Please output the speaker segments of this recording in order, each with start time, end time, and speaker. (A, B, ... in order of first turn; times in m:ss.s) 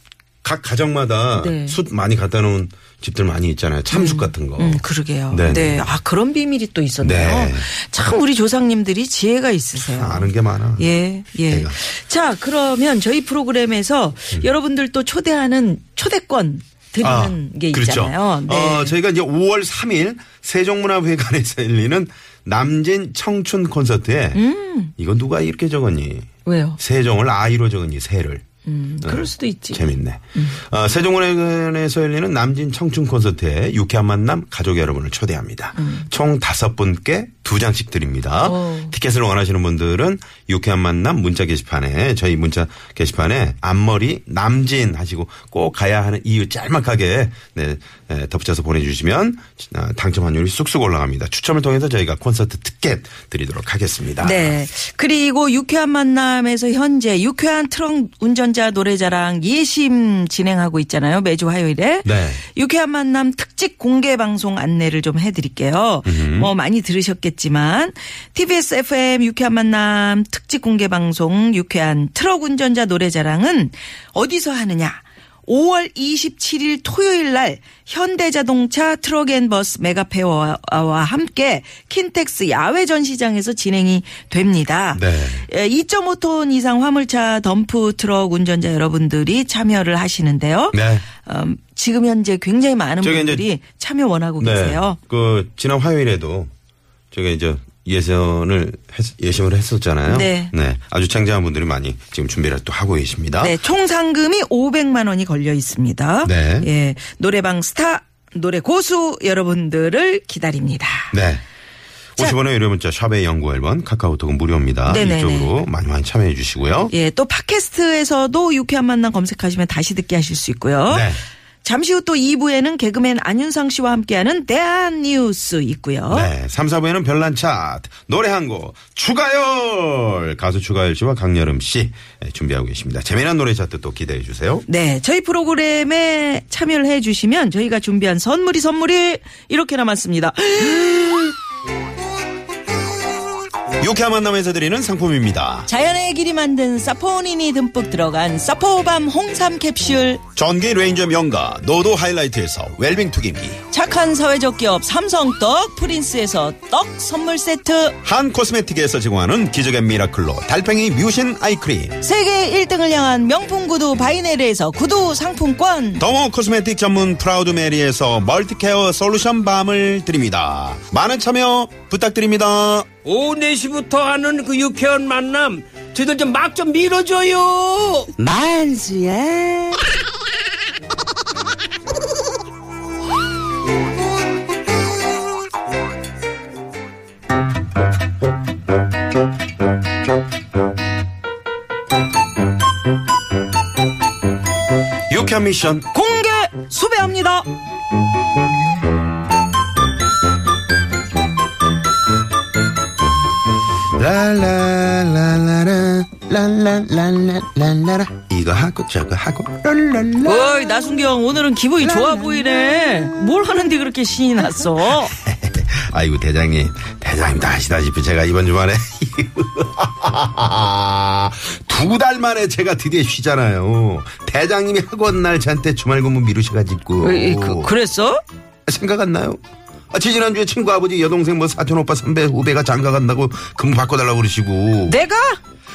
0:00.4-0:05.9 A
0:01.4-0:01.8 B
0:03.9-0:19.0 B
0:07.0-0:07.7 A
0:09.8-0:10.9 A
0:11.5-0:11.8 A
0:17.0-0:24.4 A
0:24.3-0:24.9 B
0:25.0-0:28.4 A
0:26.4-0:26.8 B
0:28.6-0:30.6 B
0:29.0-0:54.6 A
0:35.8-0:36.1 B
0:38.4-0:38.9 B
0:54.2-1:35.0 B
1:02.0-1:02.4 A
1:06.0-1:06.5 A
1:24.9-1:25.5 A
1:30.7-1:31.0 A
1:33.0-1:33.4 A
1:34.4-1:36.5 A
1:37.1-1:43.6 A
1:40.1-1:40.5 B
1:43.4-1:51.1 B
1:46.2-1:46.7 A
1:51.1-1:51.4 A
1:52.2-1:56.9 A
1:54.8-1:55.5 B
1:56.9-2:01.1 B
2:00.9-2:01.2 A
2:01.6-2:06.3 B
2:06.1-2:14.6 A
2:14.7-2:21.3 B
2:23.8-2:25.7 A
2:25.7-2:30.2 B
2:30.4-2:33.6 A
2:33.7-2:38.0 B
2:38.0-2:42.0 A
2:42.0-2:46.0 B
2:46.0-2:52.9 A
2:53.0-2:58.1 C
2:58.3-2:59.2 A
3:15.1-3:15.9 A
3:15.9-3:17.5 B
3:23.9-3:30.8 A
3:30.2-3:35.1 B
3:31.8-3:32.5 A
3:35.0-3:47.7 A
3:47.0-3:48.2 B
3:48.6-3:49.4 A
3:49.9-3:55.0 A
3:54.8-3:55.4 B